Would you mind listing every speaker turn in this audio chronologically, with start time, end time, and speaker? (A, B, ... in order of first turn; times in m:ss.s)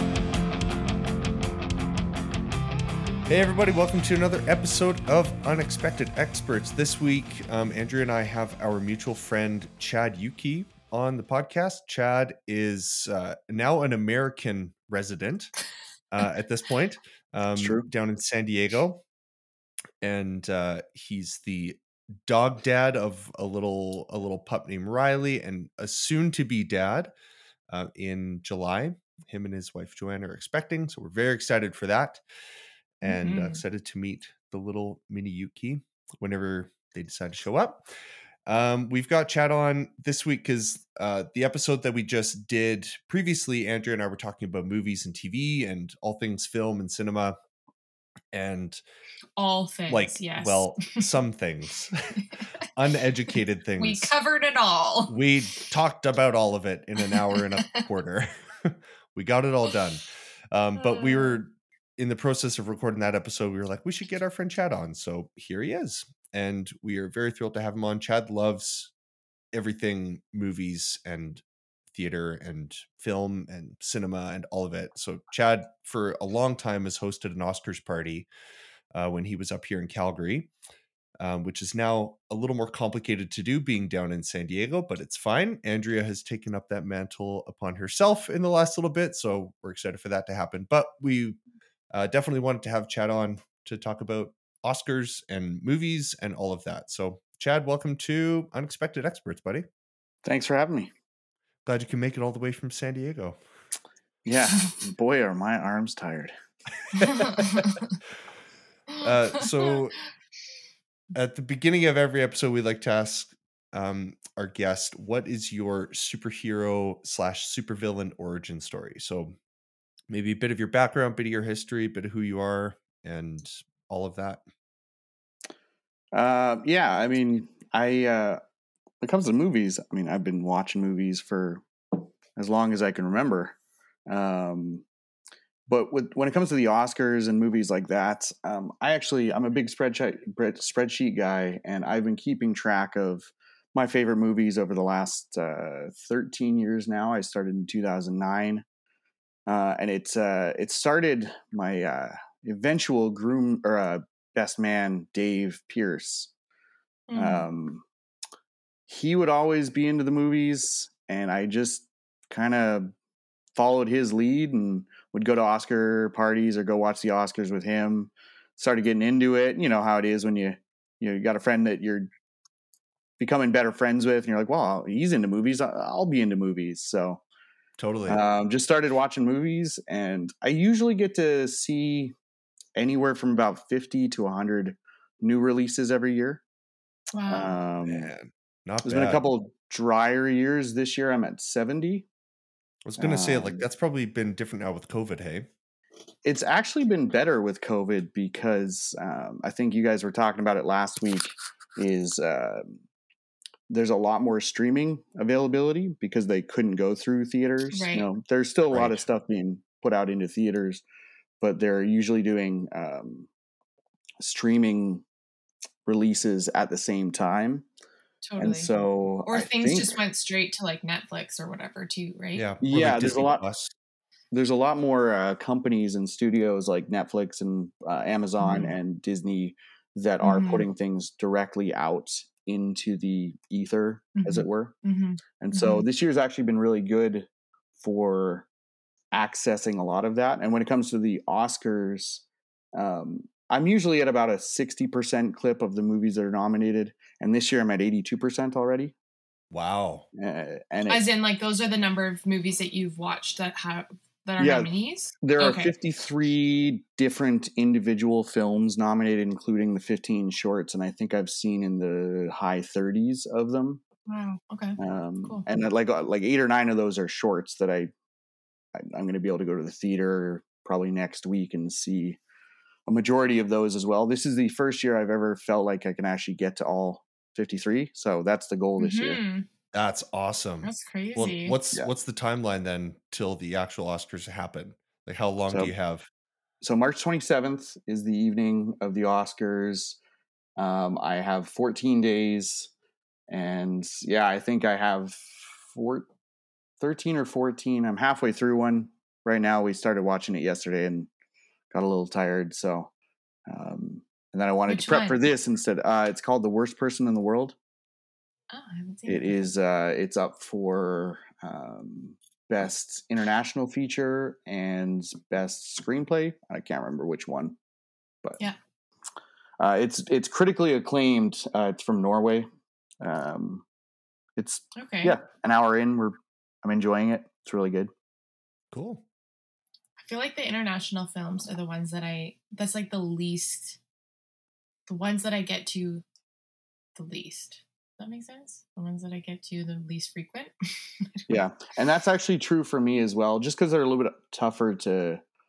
0:03.3-0:15.6 A
0:16.1-0:19.0 A
0:17.6-0:17.9 B
0:20.0-0:27.1 A
0:27.7-0:32.2 A
0:33.0-0:37.8 A
0:33.0-0:33.6 C
0:38.5-0:47.4 A
0:48.3-0:48.8 A
0:49.4-0:51.0 C
0:49.9-0:52.2 A
0:52.2-0:52.4 C
0:52.7-0:54.1 A
0:53.8-0:55.1 C
0:55.1-1:08.9 A
0:57.1-0:57.8 C
1:00.8-1:01.4 C
1:09.5-1:18.3 A
1:18.9-1:20.5 A
1:21.2-1:31.4 A
1:31.9-1:39.7 A
1:40.2-1:40.9 B
1:41.7-1:43.4 A
1:44.2-1:46.3 B
1:47.0-1:48.0 C
1:47.0-1:47.6 A
1:48.9-1:49.7 C
1:49.0-1:50.0 A
1:51.2-1:59.4 A
2:00.1-2:04.4 A
2:06.1-2:08.4 B
2:09.0-2:13.6 B
2:14.1-2:14.8 B
2:15.7-2:28.6 B
2:29.5-2:36.3 B
2:37.1-2:37.4 C
2:37.2-2:37.8 B
2:38.9-2:42.9 B
2:43.6-2:52.1 B
2:53.2-2:57.2 B
2:57.8-2:58.2 A
2:58.1-3:02.2 B
3:02.8-3:06.4 B
3:07.2-3:07.6 C
3:07.3-3:08.1 B
3:07.9-3:09.2 A
3:08.8-3:12.1 B
3:12.9-3:15.5 A
3:13.0-3:13.7 B
3:16.2-3:22.8 B
3:23.7-3:30.8 B
3:27.7-3:28.1 C
3:28.7-3:29.0 A
3:31.4-3:33.3 B
3:34.2-3:35.0 B
3:35.9-3:37.7 B
3:38.2-3:38.7 C
3:38.4-3:40.0 B
3:39.3-3:42.4 C
3:42.4-3:43.7 A
3:42.6-3:43.4 B
3:44.3-3:54.7 B
3:48.4-3:48.8 C
3:50.2-3:50.7 C
3:54.2-3:55.9 C
3:55.4-3:57.3 B
3:57.8-3:58.5 B
3:59.1-4:02.2 B
4:02.8-4:09.0 B
4:09.5-4:10.1 A
4:10.2-4:11.0 B
4:10.9-4:15.7 C
4:14.4-4:14.7 B
4:15.2-4:23.8 B
4:24.1-4:25.4 C
4:24.8-4:27.9 B
4:28.7-4:32.2 B
4:32.9-4:39.2 B
4:38.8-4:39.5 C
4:39.7-4:46.1 A
4:40.6-4:41.6 C
4:46.6-4:50.0 B
4:50.6-4:52.7 B
4:53.3-4:56.1 B
4:56.8-5:01.1 B
5:01.7-5:02.9 B
5:03.5-5:07.6 B
5:04.7-5:05.2 C
5:08.5-5:09.4 C
5:09.1-5:17.6 B
5:19.6-5:22.5 B
5:23.0-5:23.6 B
5:24.4-5:27.9 B
5:24.8-5:25.2 C
5:28.7-5:29.0 A
5:30.0-5:33.8 C
5:34.9-5:36.0 C
5:37.0-5:41.4 C
5:41.3-5:45.2 B